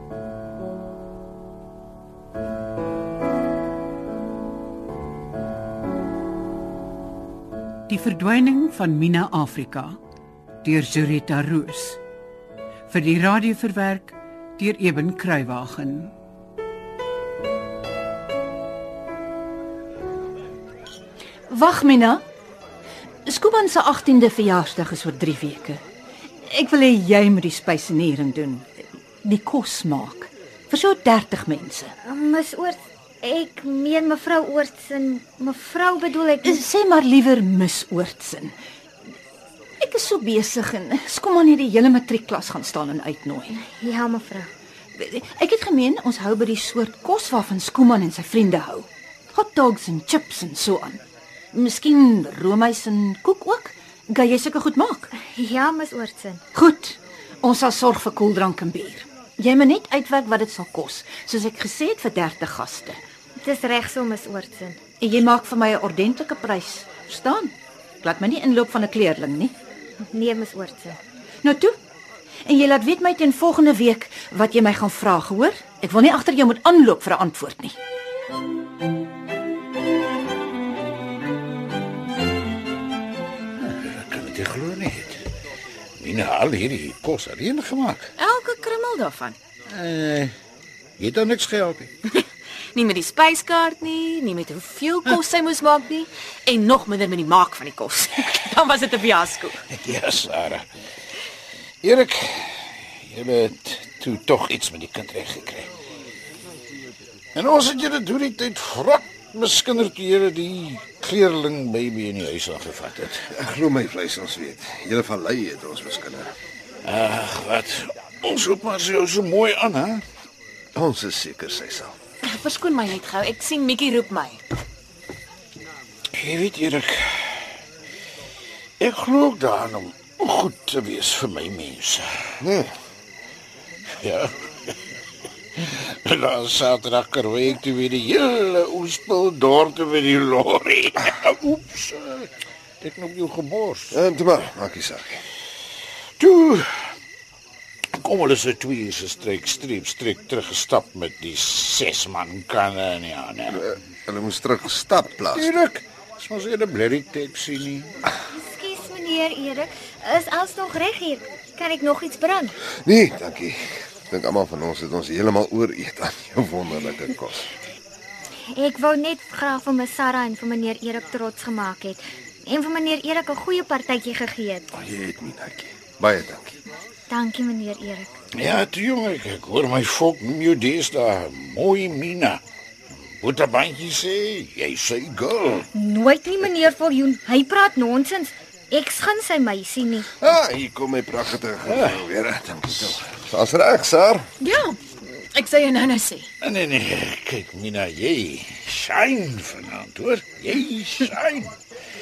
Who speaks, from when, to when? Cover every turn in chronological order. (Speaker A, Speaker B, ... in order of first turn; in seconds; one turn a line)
Speaker A: 7.9-10.0
Speaker A: 10.6-12.0
Speaker A: 12.9-16.1
Speaker B: 21.5-22.2
Speaker B: 23.3-25.8
Speaker B: 26.5-28.7
Speaker B: 29.2-31.9
Speaker C: 32.0-36.6
Speaker B: 36.4-38.5
Speaker B: 39.8-43.6
Speaker C: 43.6-44.5
Speaker B: 45.0-55.1
Speaker C: 55.2-56.4
Speaker B: 56.5-63.0
Speaker C: 63.4-64.8
Speaker B: 65.0-69.5
Speaker C: 70.1-71.0
Speaker B: 71.4-71.7
Speaker B: 72.5-77.8
Speaker D: 83.6-85.2
Speaker D: 86.0-88.1
Speaker E: 88.2-89.4
Speaker D: 89.7-90.3
Speaker D: 91.0-91.9
Speaker E: 92.8-99.6
Speaker D: 99.7-100.7
Speaker D: 101.8-105.7
Speaker D: 107.3-113.2
Speaker F: 113.3-116.3
Speaker D: 116.8-120.0
Speaker F: 120.8-122.0
Speaker E: 122.2-124.4
Speaker D: 126.2-127.3
Speaker D: 128.8-132.1
Speaker F: 132.4-132.7
Speaker D: 134.0-134.3
Speaker D: 135.6-142.3
Speaker D: 142.8-144.0
Speaker F: 143.9-145.2
Speaker D: 146.2-146.7
Speaker D: 148.0-153.6
Speaker F: 153.5-155.6
Speaker D: 155.3-157.9
Speaker C: 158.3-162.6
Speaker F: 162.8-167.5
Speaker C: 168.6-174.7
Speaker F: 174.8-176.6
Speaker C: 177.1-178.1
Speaker D: 178.4-182.4
Speaker D: 183.2-185.7
Speaker C: 185.7-190.1
Speaker F: 190.2-194.2
Speaker E: 194.4-196.3
Speaker D: 196.4-201.5